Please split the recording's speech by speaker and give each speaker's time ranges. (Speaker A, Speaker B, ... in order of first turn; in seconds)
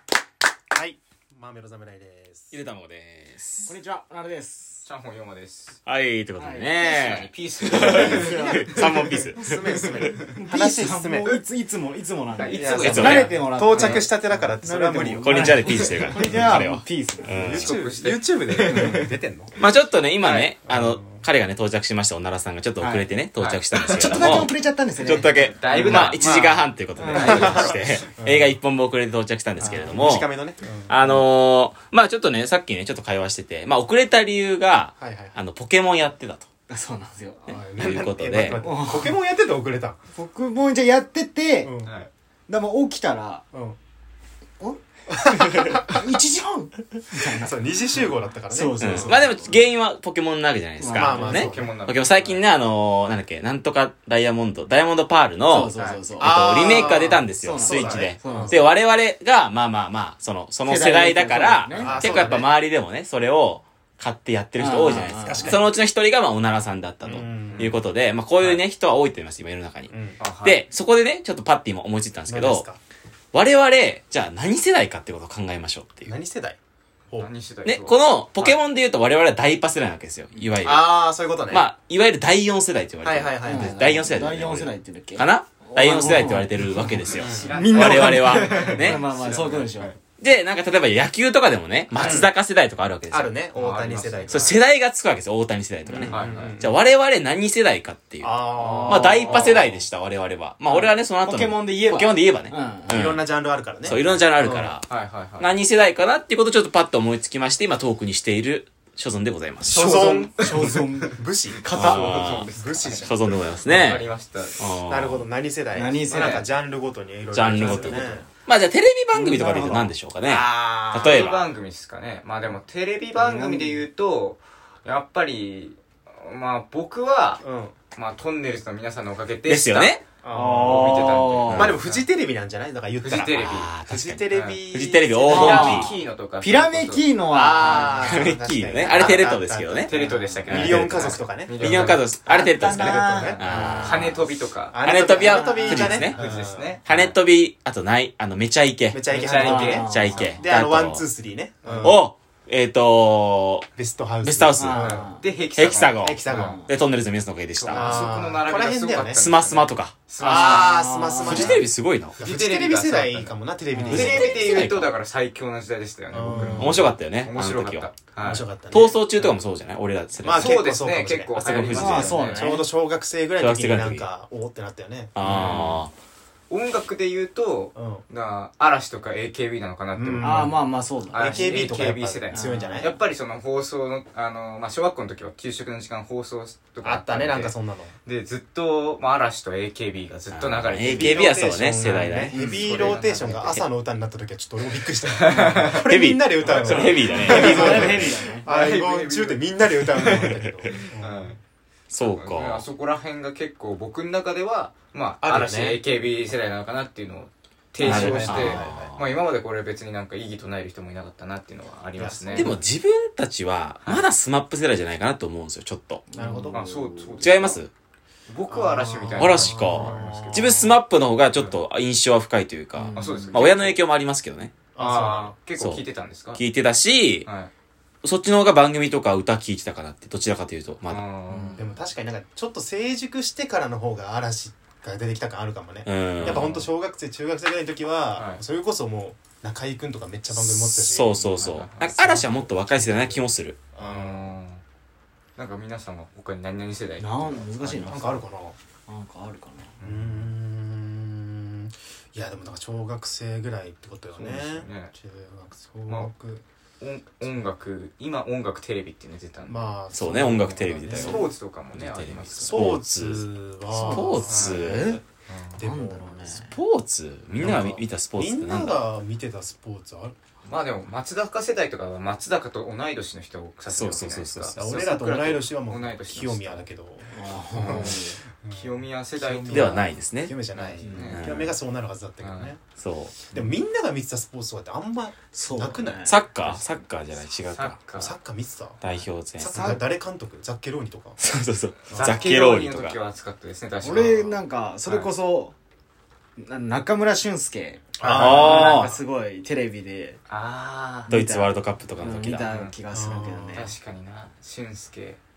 Speaker A: 0.7-2.5, 7.7-11.4, 12.5-15.7, 17.3-19.5, 20.7-21.2, 25.7-26.6, 27.2-28.6, 29.6-31.2, 35.0-35.4, 37.5-40.0, 41.6-42.0, 45.2-46.0, 47.3-49.2, 50.9-51.8, 56.0-58.6, 61.8-62.5, 64.9-65.7, 67.0-67.7, 69.9-70.2, 72.3-72.8, 76.1-76.6, 80.6-81.7, 83.0-83.8, 87.1-87.6, 91.9-92.3, 93.1-94.6, 96.0-96.7, 98.2-99.7, 102.9-104.8, 109.7-111.6, 112.5-113.4, 114.9-118.3, 120.2-121.3, 127.4-127.8, 130.2-135.8, 137.3-144.0, 144.7-147.1, 148.9-152.1, 153.8-155.1, 156.0-156.6, 157.7-159.2, 160.2-161.6, 162.2-164.7, 166.1-167.0, 168.2-169.3, 170.2-171.4, 172.3-175.8, 177.8-178.0, 179.9-183.0, 186.8-187.9, 190.9-201.4, 205.2-205.8, 207.8-208.9, 211.9-212.6, 216.2-216.6, 218.5-220.7, 224.8-225.4, 231.6-244.3, 247.8-248.6, 249.8-256.4, 259.5-261.3, 262.4-265.0, 265.6-266.5, 267.3-270.1, 274.6-282.6, 283.3-286.7, 287.9-288.8, 289.4-291.2, 291.9-292.3, 298.0-298.8, 302.9-303.7
Speaker B: 2.5-3.7, 5.9-9.7, 12.8-13.3, 15.2-17.8, 19.6-30.3, 30.9-36.5, 37.5-38.6, 48.8-72.7, 73.3-76.1, 77.7-89.1, 90.2-93.3, 94.3-103.3, 103.8-109.8, 111.8-112.5, 113.0-114.1, 114.6-115.2, 117.3-121.4, 129.5-130.0, 131.3-131.8, 133.3-135.9, 138.0-139.9, 140.5-144.2, 144.8-146.2, 146.8-151.1, 151.8-153.7, 154.2-154.9, 155.6-158.1, 159.1-160.0, 161.2-162.2, 163.9-164.9, 166.6-170.6, 171.3-172.3, 173.4-174.1, 175.2-175.9, 190.3-193.0, 195.8-198.2, 201.9-202.7, 207.8-209.1, 212.3-216.1, 217.2-217.7, 219.2-224.5, 225.6-225.8, 226.3-227.3, 228.0-231.0, 235.9-236.5, 240.3-243.7, 259.9-263.3, 263.9-265.0, 266.5-268.8, 273.7-274.6, 279.5-281.5, 282.8-283.4, 286.1-288.1, 288.8-289.8, 291.2-293.0, 298.1-299.0, 301.1-302.6
Speaker C: 3.7-4.9, 6.4-7.0, 7.9-8.7, 10.3-17.6, 18.7-19.1, 22.8-23.1, 23.9-25.5, 27.0-27.4, 29.6-30.0, 36.7-37.5, 38.6-39.1, 40.1-41.7, 42.5-43.4, 44.6-47.5, 48.5-49.6, 50.8-51.5, 55.5-58.7, 60.6-61.9, 64.6-65.6, 83.5-90.0, 95.8-96.1, 98.6-99.6, 100.7-102.9, 109.7-113.0, 115.7-116.4, 117.6-118.2, 119.1-119.9, 123.2-123.8, 130.3-131.7, 135.3-138.3, 139.9-140.6, 142.3-144.2, 145.2-146.1, 149.4-150.4, 154.6-155.2, 156.3-156.7, 160.2-161.6, 163.7-164.1, 171.7-172.7, 180.2-181.7, 182.3-182.9, 197.2-198.5, 207.8-208.3, 216.1-217.2, 222.8-223.4, 231.3-231.7, 247.0-248.2, 248.9-249.7, 263.7-265.0, 265.6-266.5, 277.1-278.2, 285.3-286.2, 289.5-289.8, 293.8-295.5, 296.4-300.2, 301.1-303.7
Speaker D: 4.8-5.8, 6.8-8.4, 12.4-14.1, 17.6-19.1, 20.2-20.5, 23.4-24.5, 25.3-26.6, 27.1-28.0, 41.8-42.1, 51.3-52.4, 55.8-56.0, 67.5-67.8, 70.2-70.7, 77.2-78.0, 87.0-90.0, 93.5-94.5, 96.1-96.6, 99.2-99.6, 104.9-105.5, 110.0-110.4, 111.7-114.6, 116.1-116.5, 120.9-130.0, 130.6-132.1, 133.0-133.7, 134.3-134.6, 135.3-137.2, 139.8-142.0, 143.8-144.8, 145.9-147.1, 149.1-150.2, 151.6-152.0, 154.8-156.6, 157.6-160.8, 162.2-163.4, 163.9-168.5, 170.3-172.6, 175.2-175.8, 176.5-180.6, 181.1-191.4, 192.3-193.7, 195.2-195.8, 196.4-201.4, 202.0-212.5, 216.5-217.6, 218.3-220.8, 222.9-223.8, 224.8-226.4, 227.2-227.5, 230.9-231.6, 236.2-236.7, 238.1-238.4, 241.3-242.0, 243.8-244.6, 245.4-248.0, 249.8-250.3, 254.1-254.9, 256.8-262.7, 264.3-264.7, 265.3-265.6, 270.5-276.7, 277.7-277.9, 278.5-279.9, 280.5-281.4, 282.2-282.6, 287.5-288.1, 291.9-295.1, 300.3-301.1, 302.5-302.8, 303.5-305.2